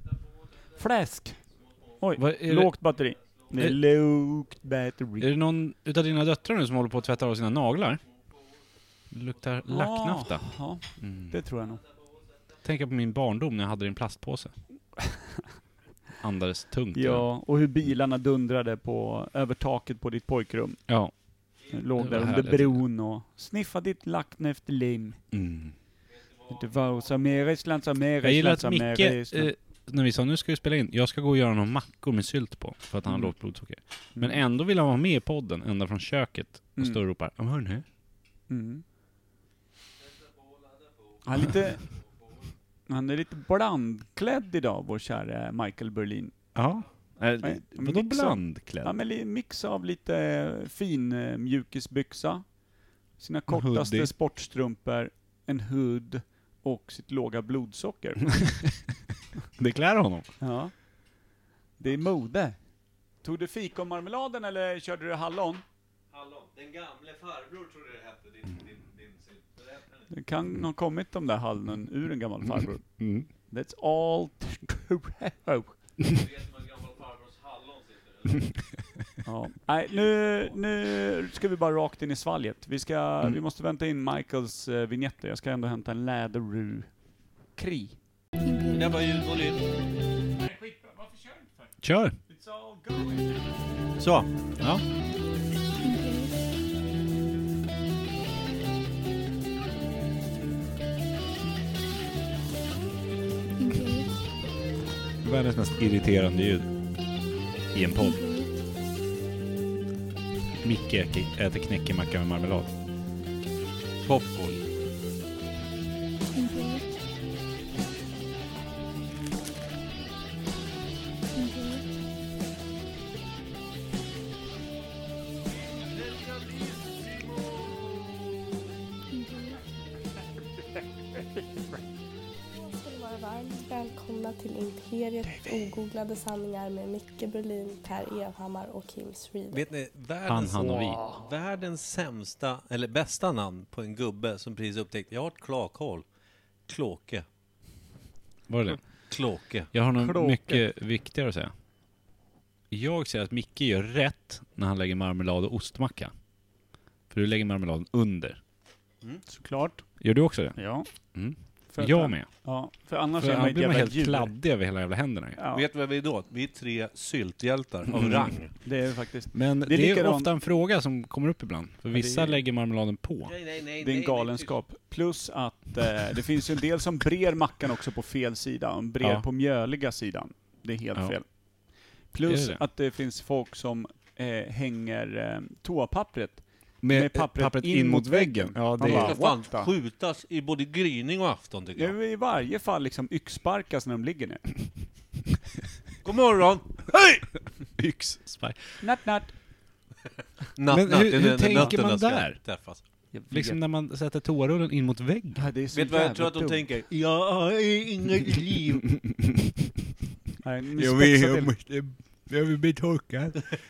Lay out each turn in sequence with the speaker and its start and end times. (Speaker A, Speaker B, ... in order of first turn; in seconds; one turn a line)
Speaker A: 0.8-1.4
Speaker A: 2.0-5.3
Speaker B: 2.2-2.7
Speaker B: 5.2-8.0
Speaker B: 9.1-11.4
Speaker A: 9.7-11.8
Speaker B: 12.6-14.5
Speaker B: 16.2-17.2
Speaker A: 16.9-20.9
Speaker B: 20.9-21.1
Speaker A: 21.6-25.2
Speaker B: 21.9-22.8
Speaker B: 25.3-25.8
Speaker A: 26.5-29.5
Speaker B: 28.2-37.8
Speaker A: 33.0-33.5
Speaker A: 34.2-34.4
Speaker A: 38.5-38.8
Speaker A: 41.2-41.9
Speaker A: 42.9-46.3
Speaker B: 46.5-48.9
Speaker A: 47.4-52.6
Speaker A: 53.1-58.6
Speaker B: 53.5-54.1
Speaker B: 59.6-60.3
Speaker A: 60.4-60.8
Speaker A: 61.8-62.6
Speaker A: 63.2-65.6
Speaker C: 66.1-70.1
Speaker A: 70.1-75.8
Speaker B: 73.0-73.3
Speaker C: 76.2-78.4
Speaker A: 79.2-88.0
Speaker D: 88.4-88.9
Speaker C: 88.7-89.6
Speaker A: 90.4-91.5
Speaker B: 91.8-92.2
Speaker A: 92.3-93.5
Speaker C: 94.0-94.3
Speaker D: 95.8-96.4
Speaker D: 103.6-104.2
Speaker B: 105.2-106.7
Speaker B: 107.7-108.2
Speaker D: 108.0-108.5
Speaker B: 110.6-112.7
Speaker C: 114.0-114.6
Speaker D: 116.3-116.9
Speaker D: 121.3-122.0
Speaker D: 129.1-129.6
Speaker D: 132.5-139.6
Speaker C: 139.5-146.0
Speaker B: 140.2-141.1
Speaker C: 146.7-147.2
Speaker B: 148.5-149.1
Speaker C: 149.1-149.7
Speaker B: 149.7-151.5
Speaker A: 150.0-150.6
Speaker B: 152.7-156.2
Speaker B: 157.1-158.4
Speaker A: 159.3-160.0
Speaker B: 160.0-162.3
Speaker A: 160.5-160.9
Speaker A: 161.7-164.3
Speaker B: 163.2-165.4
Speaker A: 165.3-165.6
Speaker C: 165.5-168.5
Speaker B: 167.9-168.3
Speaker A: 168.6-170.3
Speaker B: 169.3-173.3
Speaker A: 171.9-172.4
Speaker C: 173.3-174.5
Speaker A: 173.8-189.7
Speaker B: 182.2-182.6
Speaker B: 186.8-189.2
Speaker C: 188.9-191.9
Speaker A: 191.7-194.7
Speaker C: 196.0-196.7
Speaker B: 196.9-198.8
Speaker A: 198.8-199.4
Speaker C: 200.6-202.8
Speaker B: 200.7-202.6
Speaker A: 203.1-203.6
Speaker B: 203.3-205.5
Speaker A: 205.3-206.7
Speaker C: 205.7-208.9
Speaker A: 210.4-211.5
Speaker B: 210.8-213.4